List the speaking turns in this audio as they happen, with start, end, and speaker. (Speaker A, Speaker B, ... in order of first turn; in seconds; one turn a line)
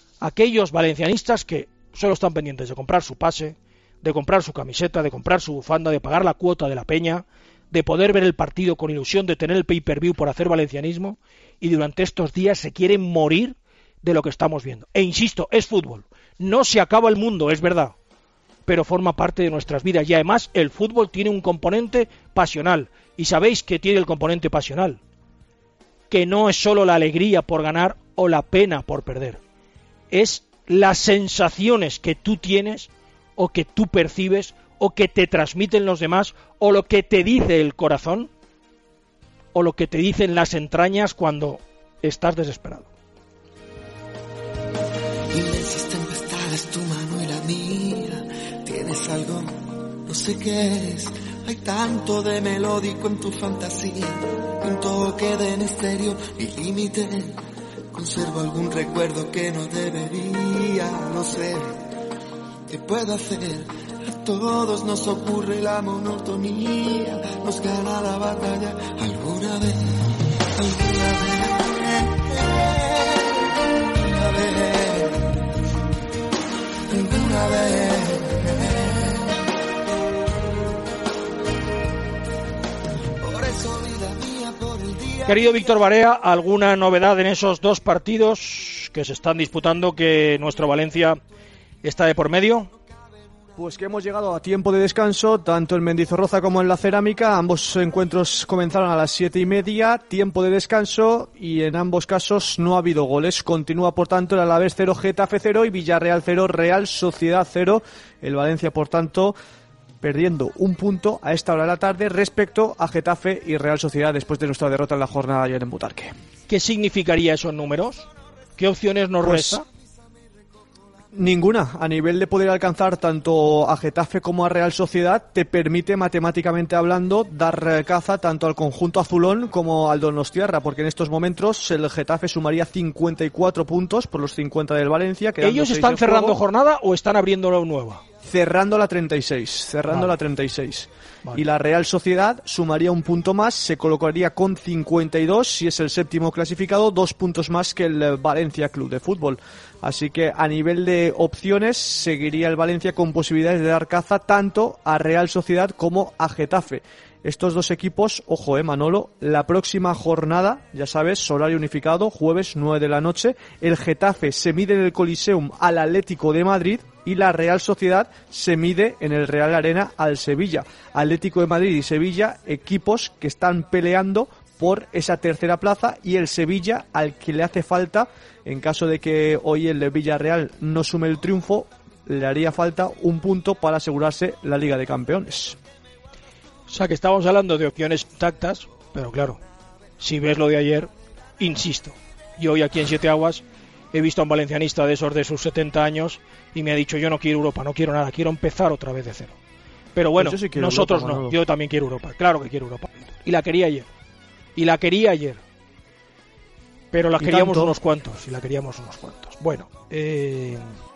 Speaker A: 0.2-17.9
Speaker A: 18.7-25.0
Speaker A: 26.1-29.4
Speaker A: 30.1-38.3
Speaker A: 39.5-42.9
Speaker B: 45.3-57.4
Speaker B: 57.9-61.8
Speaker B: 62.7-75.3
Speaker B: 76.9-79.3
Speaker B: 83.2-85.8
Speaker A: 85.3-91.2
Speaker A: 91.8-92.7
Speaker C: 93.6-109.4
Speaker C: 110.0-116.2
Speaker A: 116.5-119.7
Speaker C: 119.2-119.6
Speaker C: 121.1-136.4
Speaker A: 135.4-138.0
Speaker C: 138.2-185.6
Speaker A: 139.9-140.1
Speaker A: 186.7-189.4
Speaker A: 190.0-199.4
Speaker A: 199.9-203.9
Speaker C: 200.2-201.4
Speaker A: 204.6-205.4
Speaker A: 206.9-210.8
Speaker C: 207.2-207.8